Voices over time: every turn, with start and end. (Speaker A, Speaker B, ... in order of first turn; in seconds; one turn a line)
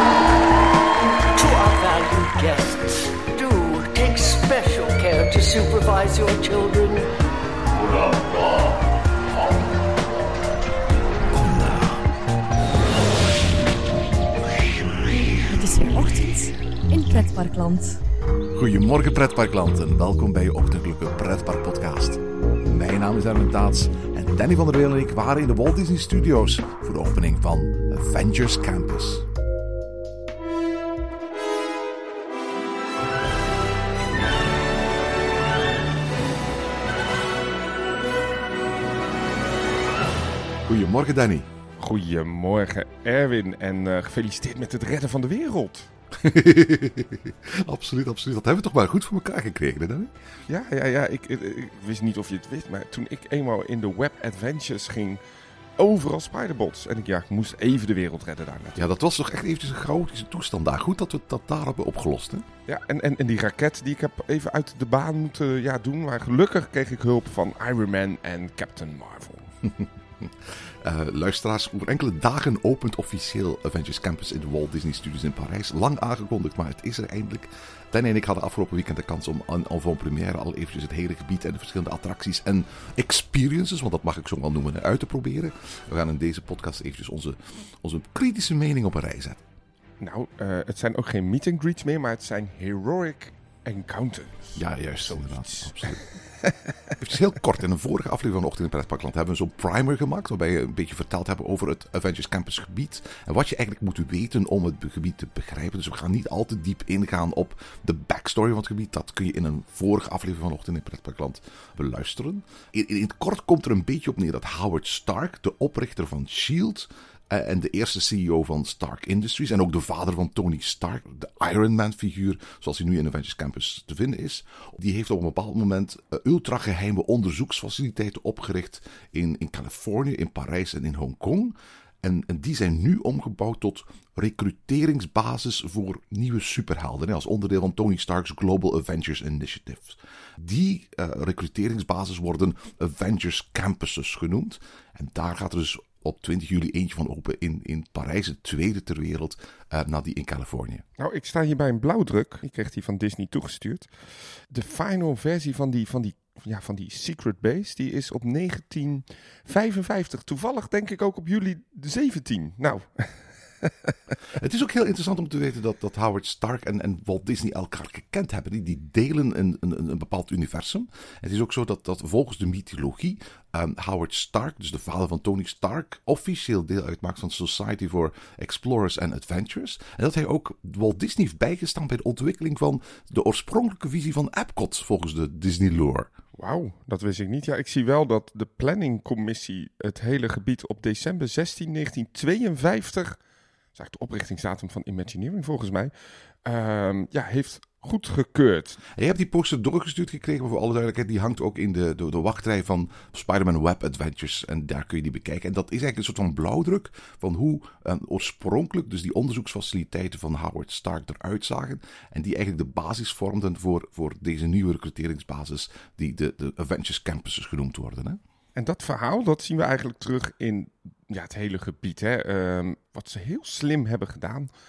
Speaker A: 1.3-7.1
Speaker B: 11.3-12.0
Speaker C: 15.2-18.0
Speaker B: 18.5-29.3
Speaker B: 40.6-41.5
Speaker D: 41.8-45.9
Speaker B: 46.1-50.1
Speaker D: 50.5-55.2
Speaker D: 55.8-58.9
Speaker B: 58.8-62.5
Speaker D: 62.7-69.5
Speaker B: 69.6-89.4
Speaker D: 90.0-96.7
Speaker B: 94.6-96.0
Speaker B: 97.0-150.8
Speaker D: 151.0-153.9
Speaker D: 154.5-163.9
Speaker B: 164.3-186.1
Speaker D: 186.4-193.2
Speaker D: 193.8-195.9
Speaker D: 196.4-198.8
Speaker B: 198.9-218.2
Speaker D: 218.6-224.5